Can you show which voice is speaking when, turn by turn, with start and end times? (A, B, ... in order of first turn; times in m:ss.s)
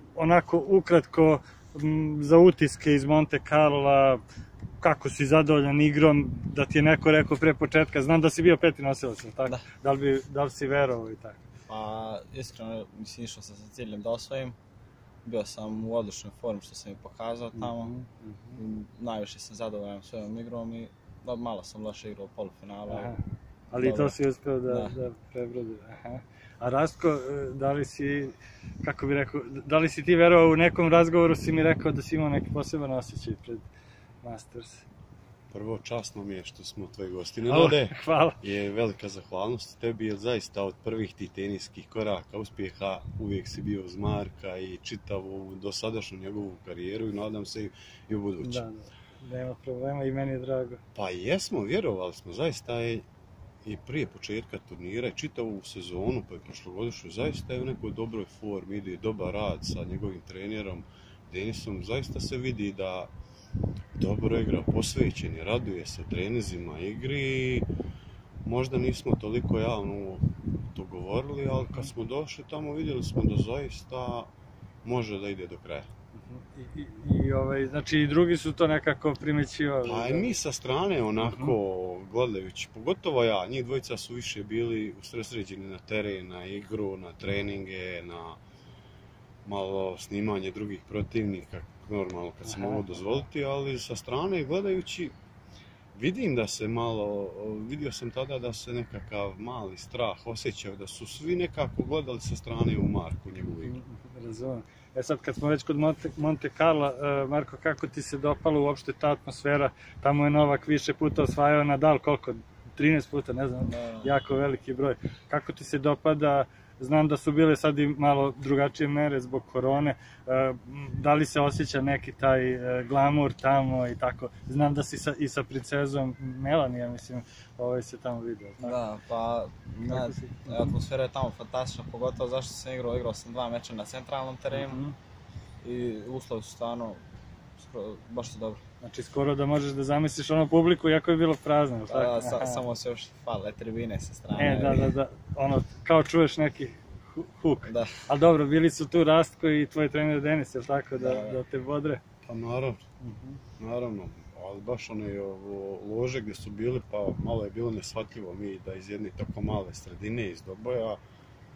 0:00.2-0:04.2 A
0:04.8-0:11.4 A
0:11.7-0:14.6 B
0:15.2-0:17.9 B
0:17.5-0:18.6 A
0:18.6-0:23.1 B
0:22.9-0:33.7 A
0:23.7-0:24.2 B
0:24.7-0:25.0 B
0:34.2-0:34.9 A
0:35.5-0:48.6 C
0:37.5-0:38.4 A
0:48.4-0:50.8 A
0:51.0-0:53.1 C
0:53.6-1:03.1 C
1:04.0-1:07.7 C
1:08.4-1:14.3 C
1:14.8-1:15.9 C
1:16.2-1:20.3 A
1:19.8-1:28.4 C
1:21.2-1:21.6 A
1:29.4-1:35.2 C
1:32.4-1:33.2 A
1:35.9-1:43.8 C
1:43.6-2:08.8 A
1:53.7-1:54.1 B
2:08.6-2:14.8 B
2:09.9-2:10.8 A
2:14.5-2:15.0 A
2:15.6-2:17.0 B
2:17.6-2:18.6 B
2:18.8-2:22.6 A
2:21.9-2:24.9 B
2:24.4-2:32.0 A
2:27.7-2:28.1 B
2:31.0-2:31.4 B
2:32.3-2:32.8 C
2:33.0-2:33.4 A
2:33.6-2:41.0 C